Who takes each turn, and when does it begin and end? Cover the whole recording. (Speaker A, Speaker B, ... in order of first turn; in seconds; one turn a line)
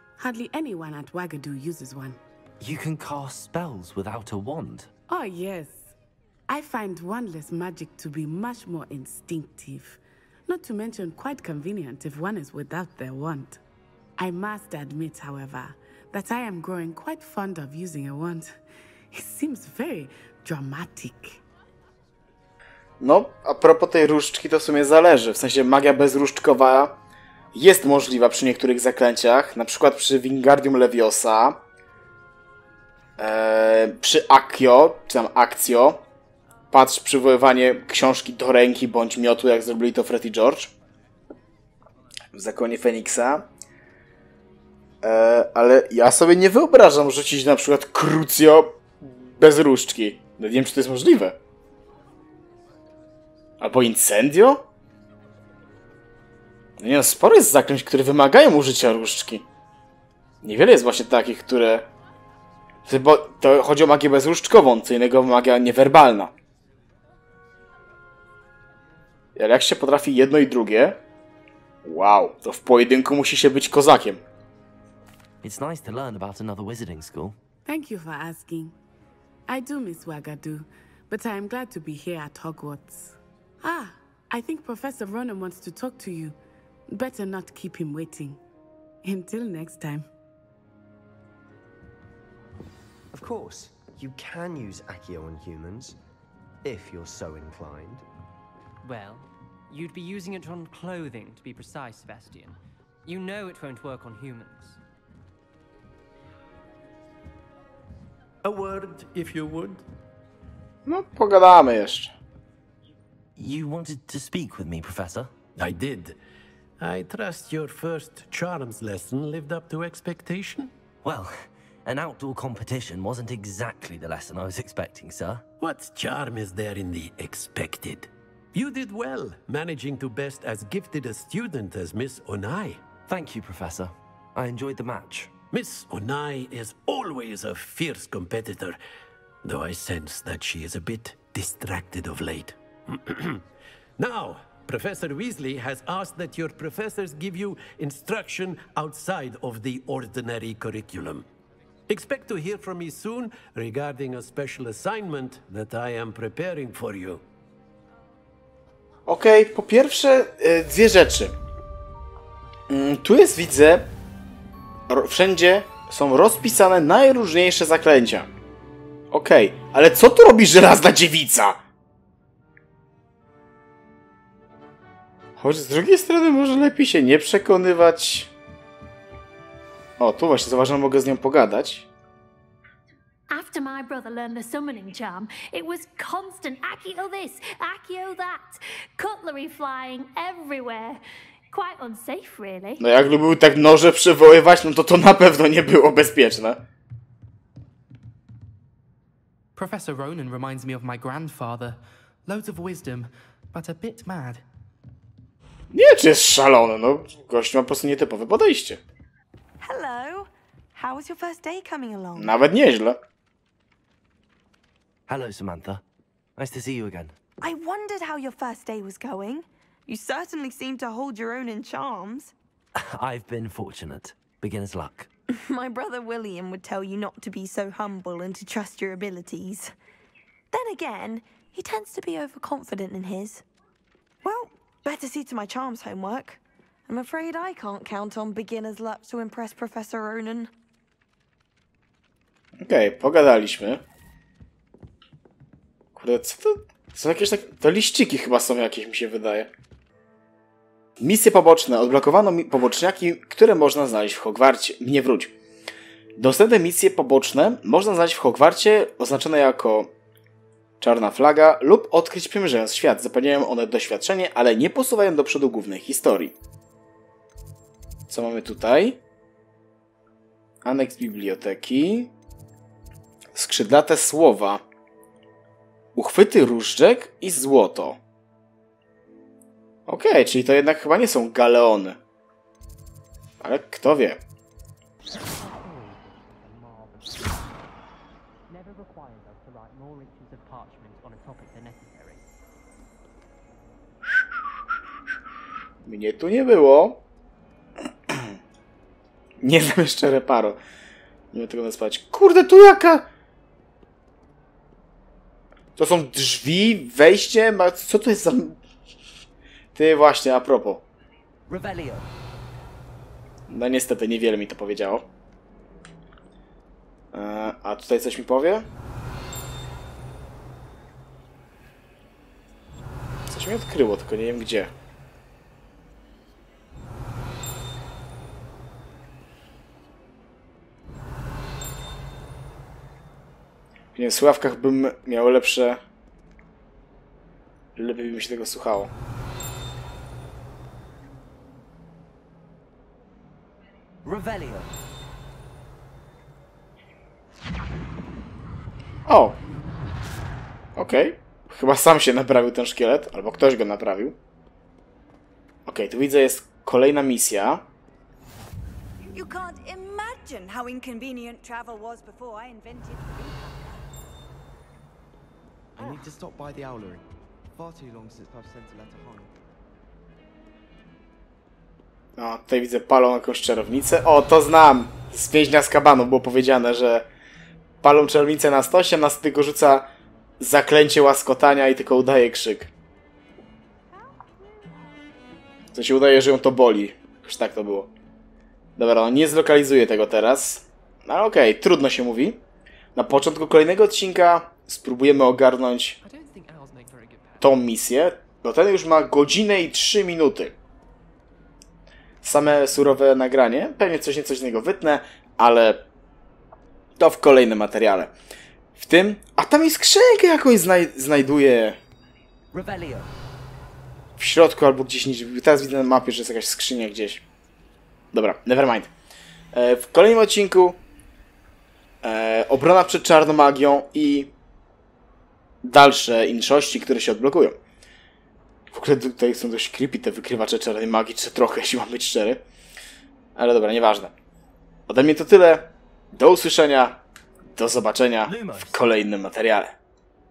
Speaker A: 0.2-2.2
Speaker B: 2.6-4.9
Speaker A: 5.1-5.9
Speaker A: 6.5-13.6
Speaker A: 14.2-18.6
Speaker A: 19.1-21.4
Speaker C: 23.0-27.0
Speaker C: 27.5-31.6
Speaker C: 33.2-36.0
Speaker C: 36.7-40.7
Speaker C: 42.3-43.5
Speaker C: 45.0-51.4
Speaker C: 53.6-54.6
Speaker C: 56.8-59.5
Speaker C: 60.4-61.9
Speaker C: 62.9-66.3
Speaker C: 69.3-71.0
Speaker C: 71.8-74.2
Speaker B: 75.4-77.4
Speaker A: 77.6-78.7
Speaker A: 79.5-86.3
Speaker A: 86.9-88.4
Speaker A: 89.0-90.1
Speaker D: 93.1-96.0
Speaker D: 96.6-98.0
Speaker E: 98.8-104.8
Speaker F: 108.4-109.8
Speaker C: 110.8-112.1
Speaker B: 113.4-115.3
Speaker F: 115.5-116.2
Speaker F: 116.8-120.7
Speaker B: 121.0-121.3
Speaker B: 121.8-125.4
Speaker F: 125.6-132.8
Speaker B: 133.1-135.3
Speaker F: 135.5-138.8
Speaker F: 139.4-143.4
Speaker F: 144.0-151.2
Speaker F: 151.9-157.2
Speaker C: 159.1-161.3
Speaker C: 162.7-163.9
Speaker C: 164.9-168.3
Speaker C: 169.1-171.6
Speaker C: 175.4-178.3
Speaker C: 180.0-181.9
Speaker G: 183.3-192.8
Speaker C: 192.8-196.6
Speaker H: 199.6-204.4
Speaker C: 205.7-208.8
Speaker I: 209.6-212.3
Speaker C: 212.2-213.0
Speaker B: 215.1-215.8
Speaker B: 216.4-217.1
Speaker I: 217.4-222.3
Speaker B: 222.8-225.1
Speaker I: 225.3-229.7
Speaker I: 230.5-233.4
Speaker I: 234.2-240.5
Speaker C: 242.6-243.8
Speaker C: 245.9-249.5
Speaker C: 251.0-255.3
Speaker C: 256.2-259.9
Speaker C: 260.8-266.3
Speaker C: 268.1-269.0
Speaker C: 270.6-272.1
Speaker C: 273.3-274.6
Speaker C: 275.9-278.0
Speaker C: 279.9-282.0
Speaker C: 283.4-284.2
Speaker E: 285.1-287.5
Speaker E: 288.5-292.2
Speaker C: 295.8-297.0
Speaker C: 298.1-298.4
Speaker C: 299.4-300.6
Speaker C: 301.3-303.1
Speaker C: 305.8-308.6
Speaker C: 309.7-310.8
Speaker B: 311.5-312.1
Speaker C: 313.5-315.1
Speaker C: 317.1-318.7
Speaker C: 323.3-324.7
Speaker C: 333.9-335.8
Speaker C: 337.8-338.9
Speaker B: 344.0-344.7
Speaker C: 349.1-349.3
Speaker C: 350.8-354.1
Speaker C: 355.6-357.6
Speaker J: 359.0-363.9
Speaker K: 365.8-367.0
Speaker J: 365.8-366.1
Speaker K: 367.6-369.3
Speaker C: 372.2-377.1
Speaker C: 377.8-379.9
Speaker C: 380.4-382.7
Speaker J: 383.9-385.0
Speaker C: 385.7-387.9
Speaker C: 388.8-392.4
Speaker C: 392.9-396.0
Speaker H: 396.0-397.7
Speaker C: 397.4-400.6
Speaker C: 402.2-405.8
Speaker C: 407.0-408.1
Speaker C: 408.8-411.8
Speaker B: 412.5-413.1
Speaker C: 414.2-417.2
Speaker C: 418.1-418.9
Speaker C: 419.5-420.8
Speaker C: 422.0-424.3
Speaker C: 425.6-427.6
Speaker C: 428.7-432.4
Speaker C: 433.4-434.1
Speaker C: 434.9-437.0
Speaker C: 437.5-439.7
Speaker B: 438.2-438.8